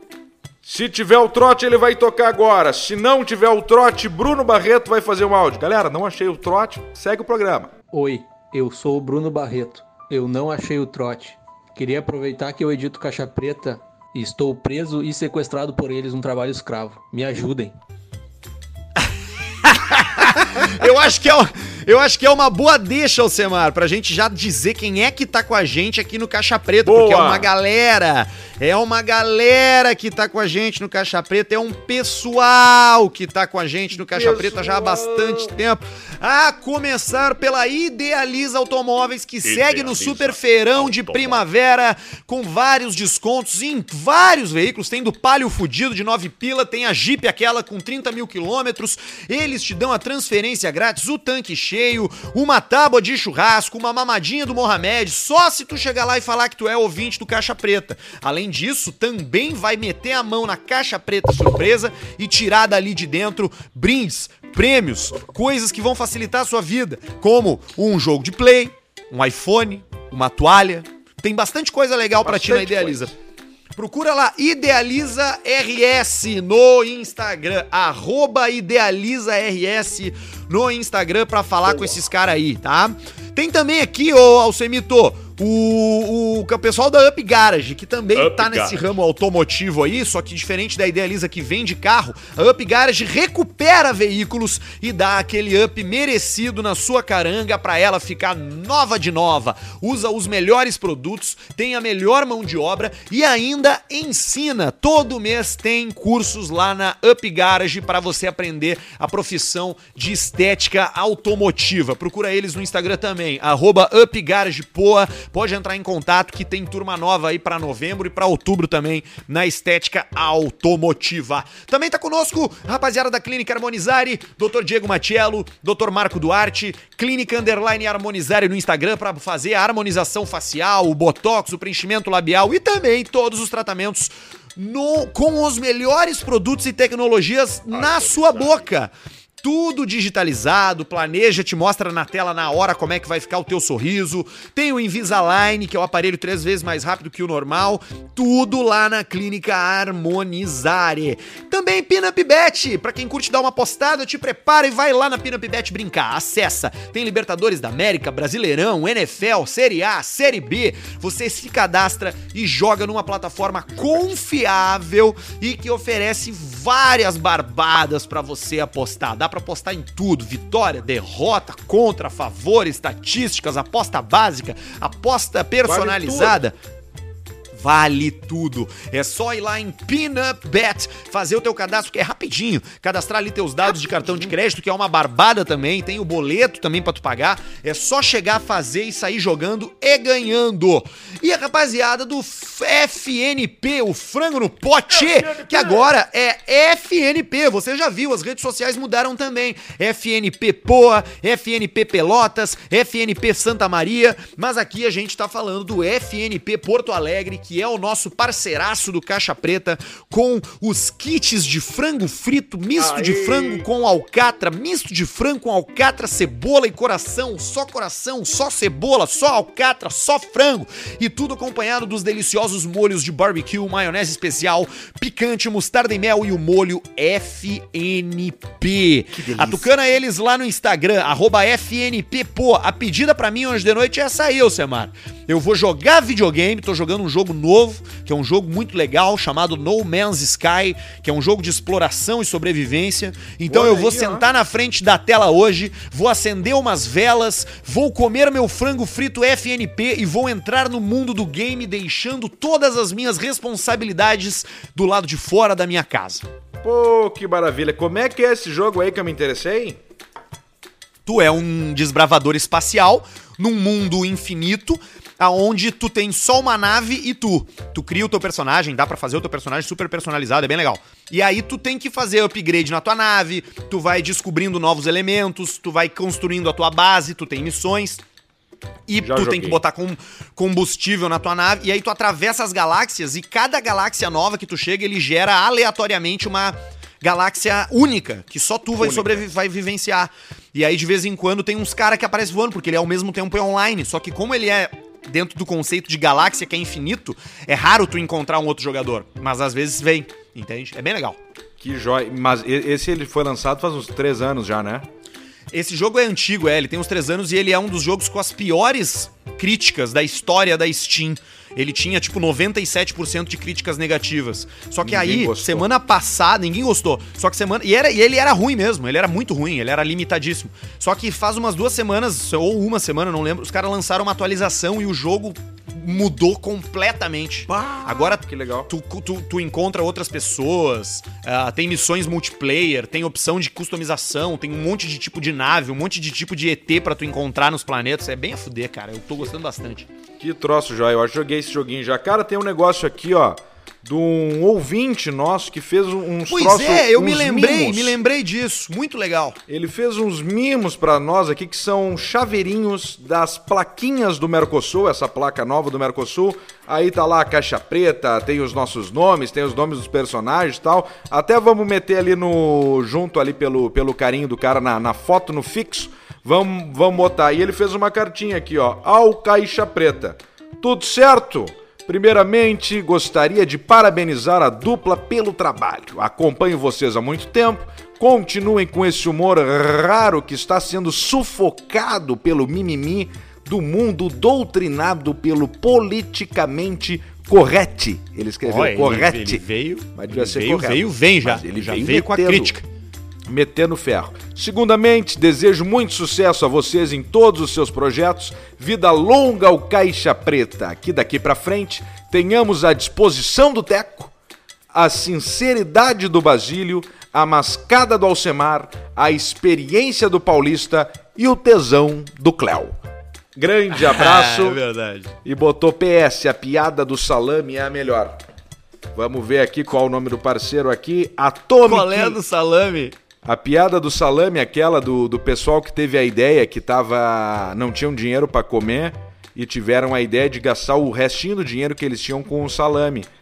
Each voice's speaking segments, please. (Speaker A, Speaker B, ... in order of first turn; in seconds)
Speaker A: 0.6-7.7, 26.8-27.5, 34.1-35.5, 39.4-41.4, 72.2-73.2, 88.2-88.8, 137.7-138.7, 175.6-176.4, 195.3-195.8, 212.8-213.7, 229.1-229.7, 243.5-244.2, 256.6-259.8, 279.0-279.6, 288.8-289.2, 301.6-304.9, 314.8-315.7, 327.5-328.7, 340.2-348.0, 349.5-389.4, 389.9-392.6, 393.3-404.1, 404.7-412.7, 413.4-414.6, 415.2-418.2, 418.9-422.2, 423.2-433.1
Speaker B: 7.9-17.8
Speaker C: 19.6-73.1, 73.8-176.5, 177.5-256.3, 261.1-278.0, 278.9-301.2, 305.5-339.9, 346.3-349.4, 388.4-392.6, 413.8-415.1, 421.6-422.9